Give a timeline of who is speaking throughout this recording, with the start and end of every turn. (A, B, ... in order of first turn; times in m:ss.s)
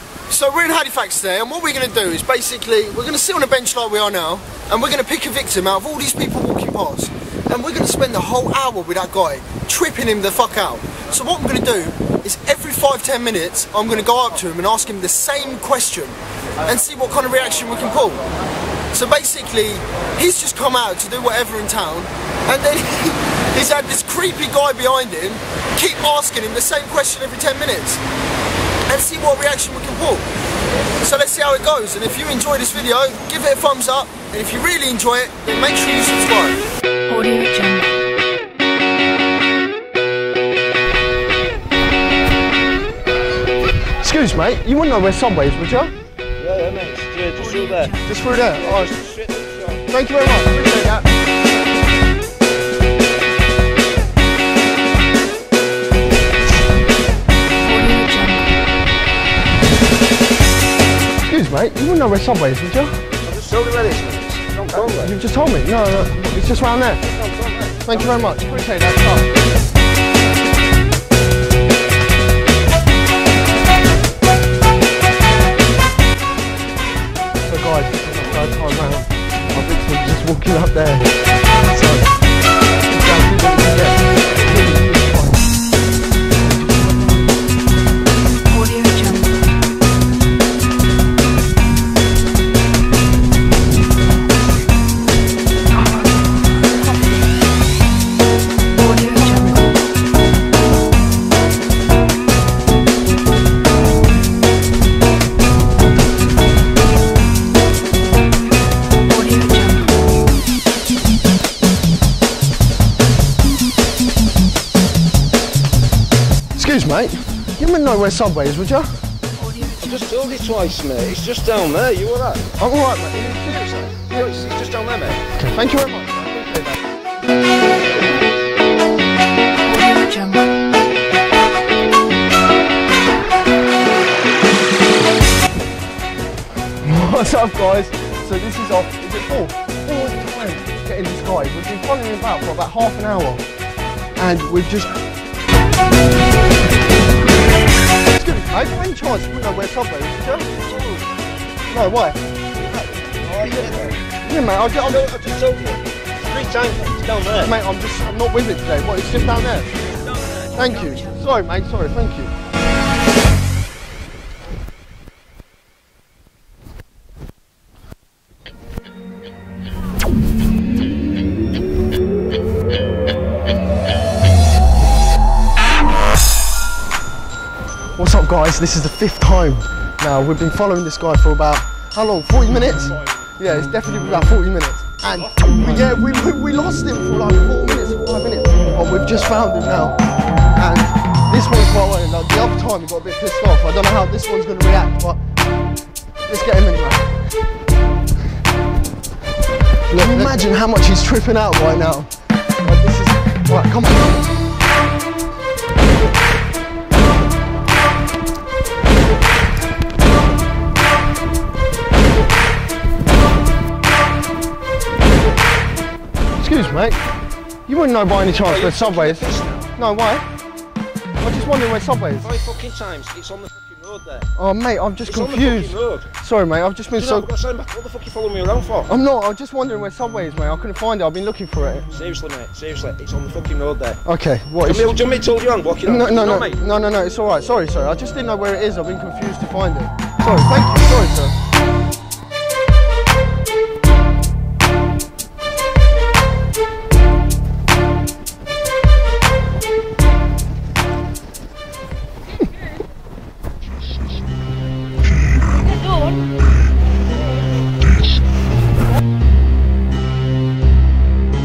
0:00.3-0:18.2 A
0:18.9-0:28.0 A
0:28.9-0:30.3 A
0:31.0-0:36.6 A
0:37.1-0:38.0 B
0:43.8-0:45.9 A
0:46.4-0:49.8 C
0:47.5-0:48.0 B
0:48.0-0:48.9 A
0:49.9-0:51.1 A
0:57.6-0:58.5 B
1:01.2-1:03.0 A
1:03.2-1:05.1 C
1:04.7-1:07.0 A
1:07.0-1:08.5 C
1:07.8-1:09.3 A
1:17.4-1:21.1 A
1:21.7-1:22.1 A
1:22.9-1:25.5 A
1:26.4-1:27.3 A
1:28.5-1:29.3 B
1:38.8-1:39.6 B
1:49.1-1:49.9 B
1:56.5-1:58.9 A
1:59.4-2:00.0 B
1:59.6-2:02.5 C
2:02.6-2:03.6 A
2:03.3-2:05.2 C
2:05.3-2:06.8 A
2:09.6-2:10.4 B
2:16.8-2:23.4 A
2:24.2-2:25.0 A
2:28.1-2:30.5 A
2:30.4-2:31.1 C
2:31.7-2:32.2 A
2:32.6-2:34.1 C
2:34.2-2:35.0 A
2:34.7-2:37.5 C
2:37.4-2:39.7 A
2:39.9-2:40.4 C
2:40.5-2:42.3 A
2:40.7-2:41.0 B
2:58.0-3:10.0 A
3:05.1-3:05.8 C
3:10.5-3:15.2 A
3:16.2-3:17.2 A
3:19.9-3:22.1 A
3:20.1-3:20.4 C
3:22.6-3:24.3 A
3:36.4-3:37.0 A
3:37.7-3:40.2 A
3:38.3-3:39.7 C
3:41.2-3:42.3 A
3:42.2-3:44.3 C
3:44.4-3:47.3 A
3:45.0-3:46.1 C
3:46.9-3:48.9 C
3:48.8-3:51.9 A
3:51.9-3:54.0 C
3:54.0-3:55.0 A
3:54.6-3:56.6 C
3:55.8-4:01.3 A